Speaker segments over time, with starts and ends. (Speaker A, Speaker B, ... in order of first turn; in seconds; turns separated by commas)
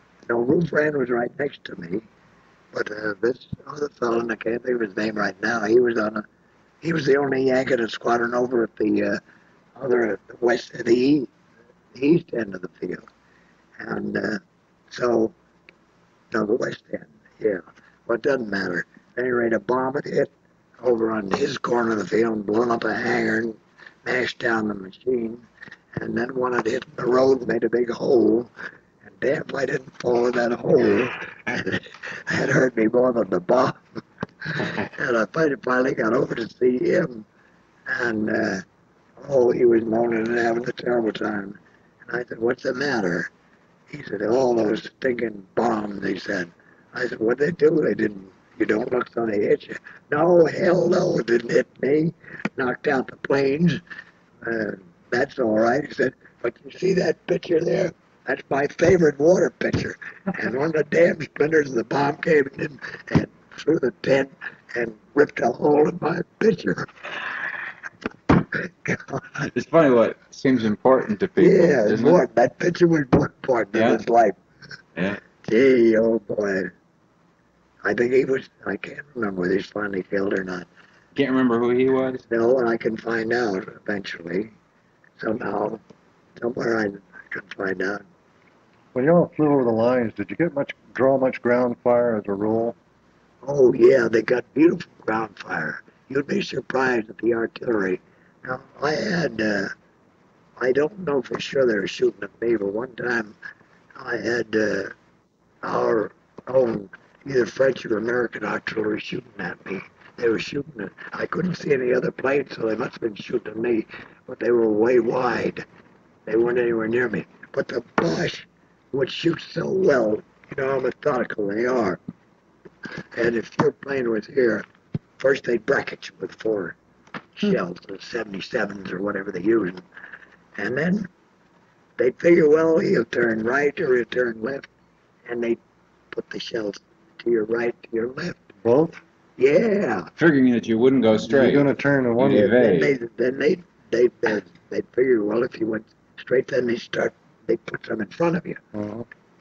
Speaker A: 0.3-2.1, Speaker A: 2.7-6.2, Speaker A: 6.8-9.2, Speaker A: 9.8-11.3, Speaker A: 11.9-13.1, Speaker A: 13.8-15.3, Speaker A: 16.3-28.5, Speaker A: 29.1-37.3, Speaker A: 37.9-38.6, Speaker A: 39.2-43.3, Speaker A: 43.9-53.8, Speaker A: 54.4-66.9, Speaker A: 68.5-69.5, Speaker B: 69.5-72.2, Speaker A: 71.4-74.4, Speaker B: 73.7-74.0, Speaker A: 75.4-76.7, Speaker A: 77.8-80.7, Speaker B: 81.2-82.2, Speaker A: 82.3-84.5, Speaker A: 85.2-85.8, Speaker A: 86.4-88.0, Speaker C: 88.9-92.8, Speaker A: 93.4-99.7, Speaker A: 100.6-103.3, Speaker A: 104.0-104.9, Speaker A: 105.6-115.6, Speaker A: 116.3-122.0, Speaker A: 123.1-124.7, Speaker A: 125.2-126.8, Speaker A: 127.4-129.8, Speaker A: 130.6-131.1, Speaker A: 132.0-134.7, Speaker A: 135.2-135.6, Speaker A: 136.1-138.4, Speaker C: 138.6-139.0, Speaker A: 139.4-140.1, Speaker B: 140.2-141.7, Speaker C: 141.3-142.5, Speaker B: 142.2-142.9, Speaker A: 142.3-148.6, Speaker C: 148.7-149.1